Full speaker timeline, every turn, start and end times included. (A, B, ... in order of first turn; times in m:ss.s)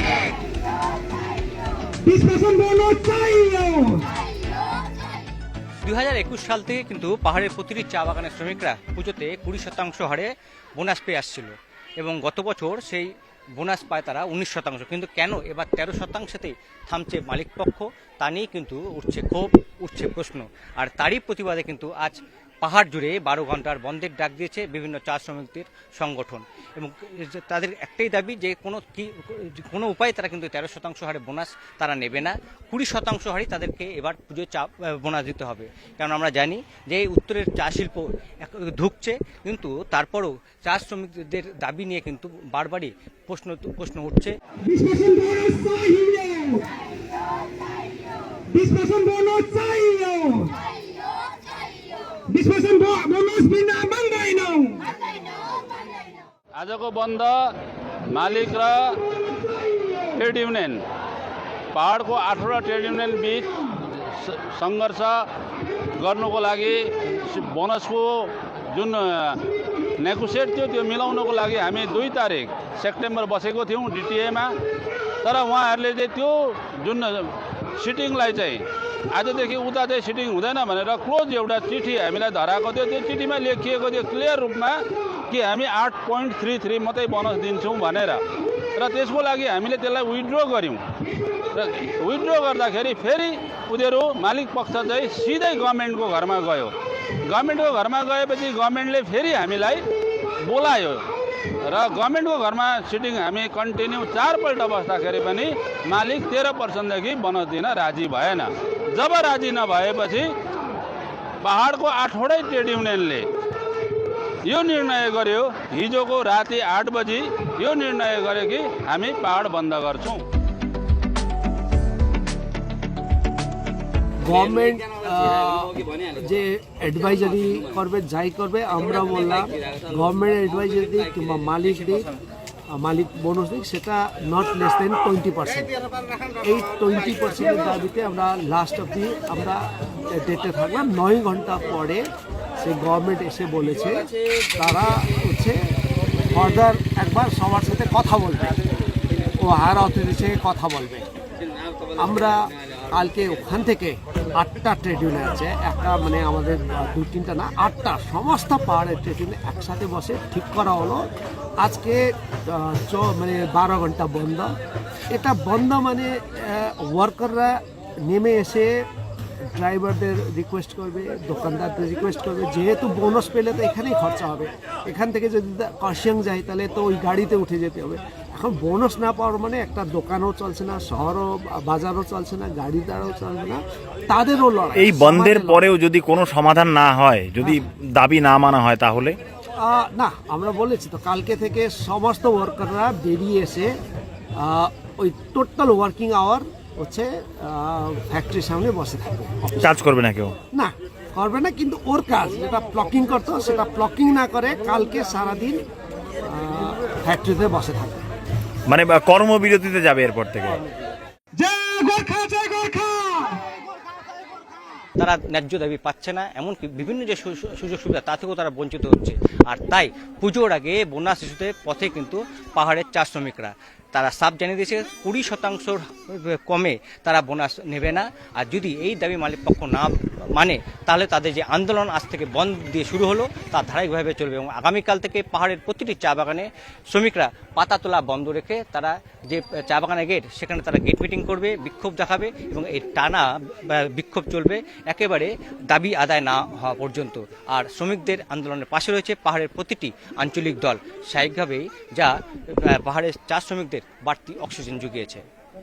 0:02.0-0:04.1 A
0:05.8-0:44.3 B
0:44.6-0:46.6 A
0:48.5-0:50.6 A
0:52.3-0:54.9 A
0:56.6-0:57.5 C
0:58.1-0:59.0 C
1:00.1-1:00.8 C
1:01.7-1:05.3 C
1:06.0-1:09.4 C
1:10.0-1:14.6 C
1:15.2-1:28.2 C
1:28.8-1:30.8 C
1:31.5-1:36.7 C
1:37.2-1:39.8 C
1:40.4-1:41.0 C
1:41.6-1:50.3 C
1:51.4-1:53.3 C
1:54.4-2:00.2 C
2:04.2-2:12.1 D
2:12.7-2:15.7 D
2:16.4-2:22.0 D
2:22.6-2:25.6 D
2:26.3-2:28.6 D
2:29.4-2:31.1 D
2:31.9-2:32.4 D
2:32.9-2:41.0 D
2:41.6-2:44.5 D
2:45.1-2:48.7 D
2:49.5-3:05.6 D
3:04.8-3:09.2 E
3:09.6-3:13.7 D
3:14.4-3:19.8 D
3:19.6-3:20.3 E
3:20.5-3:25.6 D
3:26.2-3:28.0 D
3:28.7-3:30.6 E
3:31.3-3:33.4 A
3:35.0-4:12.1 B
4:12.6-4:15.2 B